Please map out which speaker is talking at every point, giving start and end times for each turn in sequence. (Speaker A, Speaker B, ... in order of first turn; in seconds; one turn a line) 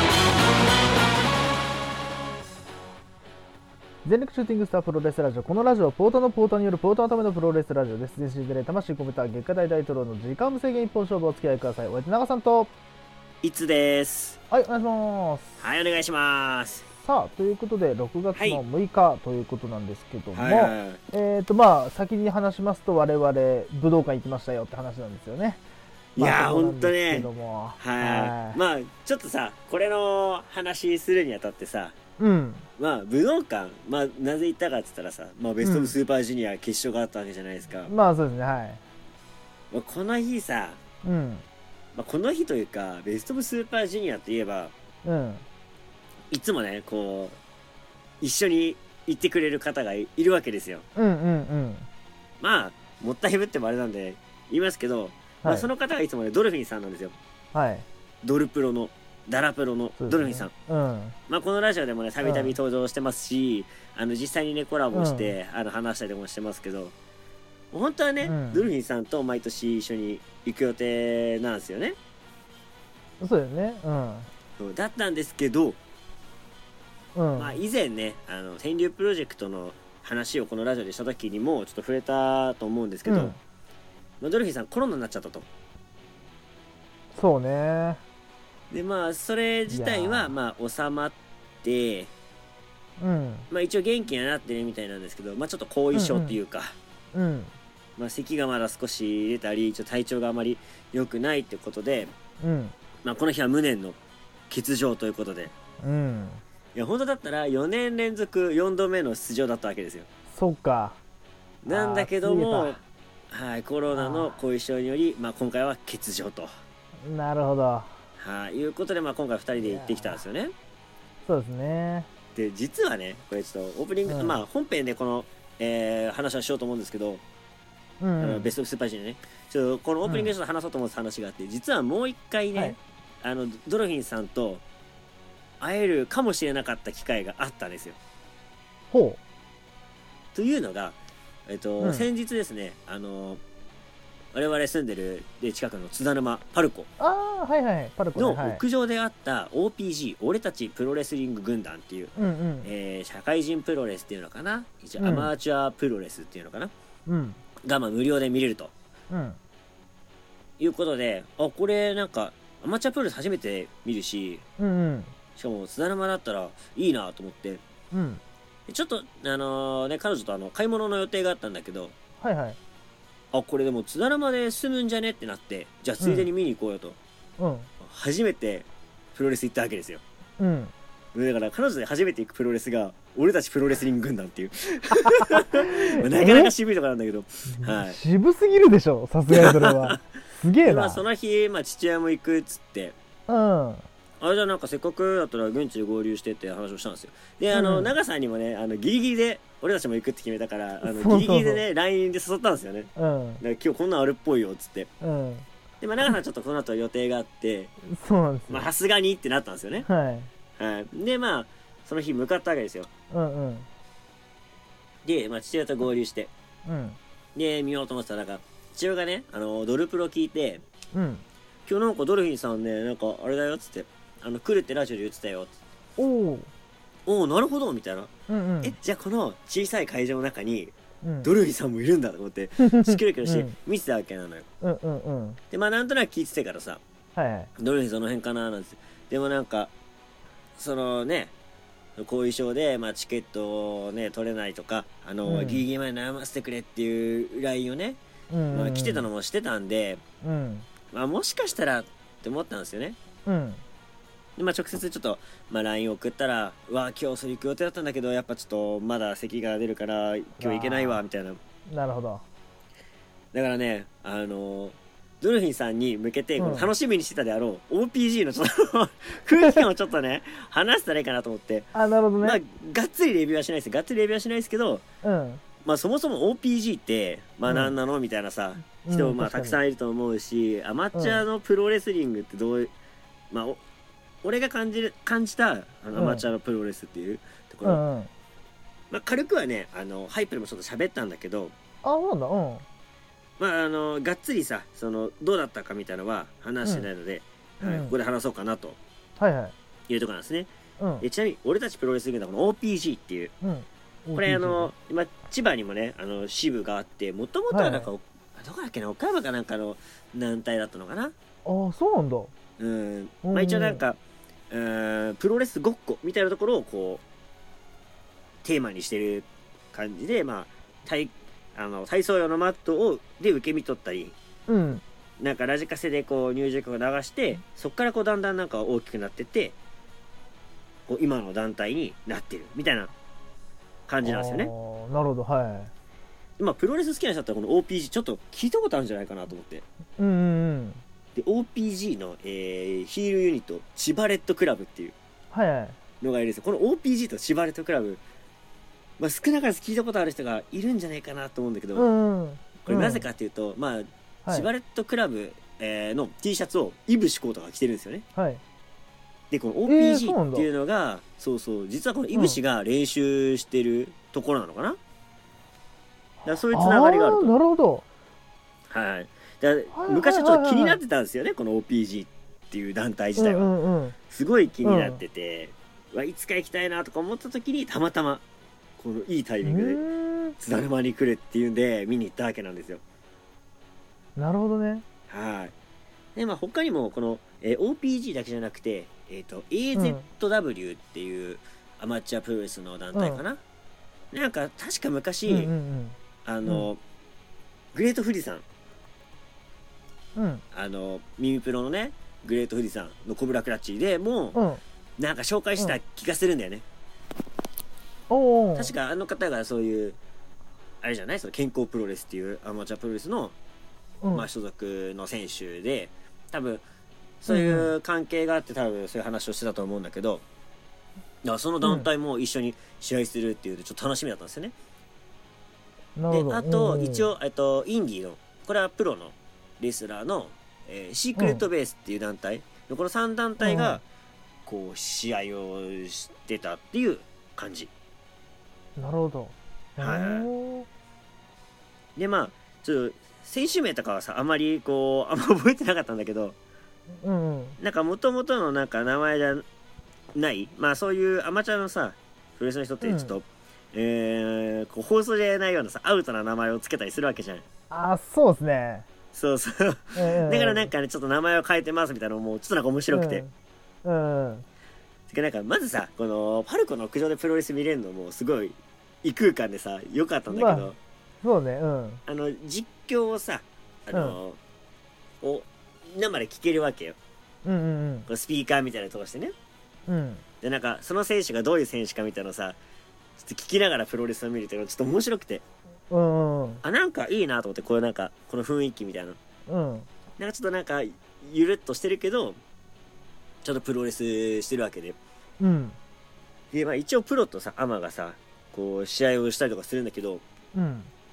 Speaker A: 4.0-12.7
Speaker B: 13.4-14.4
Speaker A: 14.5-15.6
Speaker B: 15.6-16.8
Speaker A: 17.0-25.6
Speaker B: 18.3-18.6
Speaker B: 20.3-21.0
Speaker B: 26.1-31.9
Speaker A: 26.2-28.6
Speaker A: 32.2-32.6
Speaker B: 32.8-37.9
Speaker A: 35.6-35.9
Speaker A: 37.9-38.8
Speaker B: 39.7-40.8
Speaker A: 41.0-41.4
Speaker B: 41.9-44.7
Speaker A: 45.0-45.4
Speaker B: 46.3-47.4
Speaker B: 48.2-50.8
Speaker A: 51.0-51.9
Speaker B: 52.4-57.1
Speaker A: 55.4-55.7
Speaker A: 57.5-57.9
Speaker B: 58.2-60.5
Speaker A: 60.0-61.1
Speaker B: 61.3-66.9
Speaker A: 62.2-62.5
Speaker A: 64.9-65.3
Speaker B: 67.7-72.0
Speaker A: 68.2-68.7
Speaker A: 73.2-74.3
Speaker B: 74.6-75.8
Speaker A: 77.1-77.6
Speaker B: 77.3-83.3
Speaker A: 83.1-83.4
Speaker B: 84.2-85.5
Speaker A: 87.1-88.0
Speaker B: 88.7-92.1
Speaker A: 89.7-90.3
Speaker A: 93.0-93.5
Speaker B: 93.5-96.8
Speaker A: 95.9-96.4
Speaker A: 97.1-97.5
Speaker B: 98.0-102.1
Speaker A: 102.4-102.7
Speaker B: 103.0-104.0
Speaker B: 104.5-105.5
Speaker A: 105.8-106.4
Speaker B: 106.7-110.1
Speaker A: 110.3-111.0
Speaker B: 111.6-116.5
Speaker A: 111.7-112.8
Speaker A: 113.9-114.4
Speaker A: 117.0-118.0
Speaker B: 118.2-120.5
Speaker A: 119.6-120.2
Speaker A: 121.2-122.1
Speaker B: 122.3-127.2
Speaker A: 124.1-124.4
Speaker A: 128.0-128.5
Speaker B: 128.2-134.6
Speaker A: 130.0-130.3
Speaker B: 135.6-138.0
Speaker A: 138.9-139.2
Speaker B: 140.3-143.4
Speaker A: 141.8-142.1
Speaker B: 144.3-146.9
Speaker A: 147.0-148.6
Speaker B: 148.2-152.1
Speaker A: 152.2-152.7
Speaker B: 152.6-156.7
Speaker A: 155.0-155.3
Speaker A: 157.1-157.4
Speaker B: 157.6-158.7
Speaker A: 159.1-159.4
Speaker B: 160.6-164.4
Speaker A: 164.6-165.1
Speaker B: 165.3-167.6
Speaker A: 167.9-168.2
Speaker B: 168.7-171.9
Speaker A: 172.2-172.6
Speaker B: 173.3-177.0
Speaker A: 176.0-176.3
Speaker A: 177.4-177.7
Speaker B: 177.8-180.0
Speaker A: 180.4-180.7
Speaker B: 181.1-188.0
Speaker A: 184.9-186.5
Speaker A: 187.5-191.0
Speaker B: 189.3-190.0
Speaker B: 190.6-192.9
Speaker A: 193.3-193.8
Speaker B: 194.2-204.9
Speaker A: 197.5-197.9
Speaker A: 200.8-201.6
Speaker A: 202.9-203.4
Speaker A: 205.0-205.4
Speaker B: 205.8-207.7
Speaker A: 207.8-208.7
Speaker B: 208.5-209.9
Speaker A: 209.8-210.3
Speaker B: 210.6-212.9
Speaker A: 213.1-213.7
Speaker B: 215.0-216.3
Speaker A: 216.6-217.0
Speaker B: 217.3-220.6
Speaker A: 220.9-221.2
Speaker B: 221.7-225.5
Speaker A: 226.0-226.5
Speaker B: 227.1-228.1
Speaker A: 228.3-228.8
Speaker B: 228.6-234.4
Speaker A: 231.0-231.3
Speaker A: 232.6-233.5
Speaker A: 234.6-235.4
Speaker B: 235.5-236.8
Speaker A: 237.2-237.5
Speaker B: 237.6-239.7
Speaker B: 240.6-241.3
Speaker B: 242.0-248.0
Speaker A: 245.2-245.6
Speaker A: 248.3-249.1
Speaker B: 248.5-250.0
Speaker A: 250.2-250.7
Speaker B: 250.9-253.0
Speaker A: 253.2-253.6
Speaker B: 254.4-261.4
Speaker A: 260.4-261.0
Speaker A: 261.7-262.2
Speaker B: 263.3-274.8
Speaker A: 266.4-266.7
Speaker A: 271.7-272.4
Speaker A: 275.0-275.4
Speaker B: 275.6-282.7
Speaker A: 277.4-277.7
Speaker A: 278.8-279.6
Speaker A: 280.9-281.2
Speaker B: 283.3-283.6
Speaker B: 284.2-287.8
Speaker A: 285.9-286.2
Speaker A: 287.6-288.1
Speaker B: 288.9-291.5
Speaker A: 291.8-292.6
Speaker B: 293.4-298.8
Speaker A: 297.6-297.9
Speaker A: 299.2-299.5
Speaker B: 299.9-300.5
Speaker A: 300.8-301.1
Speaker B: 301.0-303.3
Speaker A: 303.4-304.7
Speaker B: 304.1-311.1
Speaker A: 307.5-307.9
Speaker A: 311.4-312.3
Speaker B: 312.6-314.0
Speaker A: 313.2-313.8
Speaker B: 314.5-317.0
Speaker B: 318.4-324.1
Speaker A: 324.5-324.8
Speaker B: 325.2-329.6
Speaker B: 330.9-332.9
Speaker B: 333.9-334.5
Speaker A: 334.0-335.7
Speaker B: 336.4-339.6
Speaker A: 340.0-340.8
Speaker B: 341.1-344.9
Speaker A: 345.3-345.8
Speaker B: 346.0-348.0
Speaker B: 349.0-351.9
Speaker A: 351.8-353.1
Speaker B: 352.6-358.0
Speaker A: 358.1-358.4
Speaker B: 359.3-364.8
Speaker A: 359.6-360.5
Speaker A: 362.1-362.4
Speaker B: 366.2-367.3
Speaker A: 366.5-367.9
Speaker B: 368.7-373.5
Speaker A: 369.7-370.8
Speaker A: 373.1-373.9
Speaker B: 374.1-378.2
Speaker A: 374.6-375.0
Speaker B: 378.8-379.8
Speaker A: 379.4-380.4
Speaker B: 380.4-382.8
Speaker A: 384.1-384.8
Speaker B: 385.1-385.5
Speaker B: 386.1-393.4
Speaker A: 389.7-390.0
Speaker A: 392.9-393.2
Speaker B: 394.1-395.5
Speaker A: 395.3-396.7
Speaker B: 396.2-396.8
Speaker B: 397.7-398.4
Speaker A: 400.1-400.4
Speaker B: 400.5-404.4
Speaker A: 404.3-404.6
Speaker B: 405.0-406.6
Speaker A: 408.1-408.7
Speaker B: 408.5-410.0
Speaker B: 410.8-413.3
Speaker A: 414.0-414.3
Speaker B: 414.1-416.6
Speaker B: 417.2-420.2
Speaker A: 417.3-417.7
Speaker B: 421.2-424.5
Speaker A: 426.0-427.1
Speaker B: 426.1-433.8
Speaker A: 431.1-431.4
Speaker A: 433.4-433.8
Speaker B: 434.4-437.7
Speaker A: 438.8-440.7
Speaker B: 439.8-440.3
Speaker B: 441.9-446.4
Speaker A: 447.0-447.6
Speaker B: 447.6-449.4
Speaker B: 450.1-457.4
Speaker A: 452.8-453.1
Speaker A: 457.7-458.9
Speaker B: 459.1-463.2
Speaker A: 459.9-460.7
Speaker A: 462.9-463.3
Speaker A: 463.8-464.4
Speaker B: 465.1-470.8
Speaker A: 470.3-470.7
Speaker A: 471.2-472.0
Speaker B: 472.1-474.4
Speaker A: 473.9-474.2
Speaker B: 475.2-477.0
Speaker A: 477.4-478.1
Speaker B: 478.1-479.3
Speaker A: 479.9-480.2
Speaker B: 480.4-482.6
Speaker B: 483.2-485.4
Speaker A: 485.9-486.6
Speaker B: 486.6-489.2
Speaker A: 489.5-489.9
Speaker B: 490.2-492.4
Speaker B: 493.4-495.0
Speaker A: 495.4-495.8
Speaker B: 496.5-500.2
Speaker A: 500.5-500.9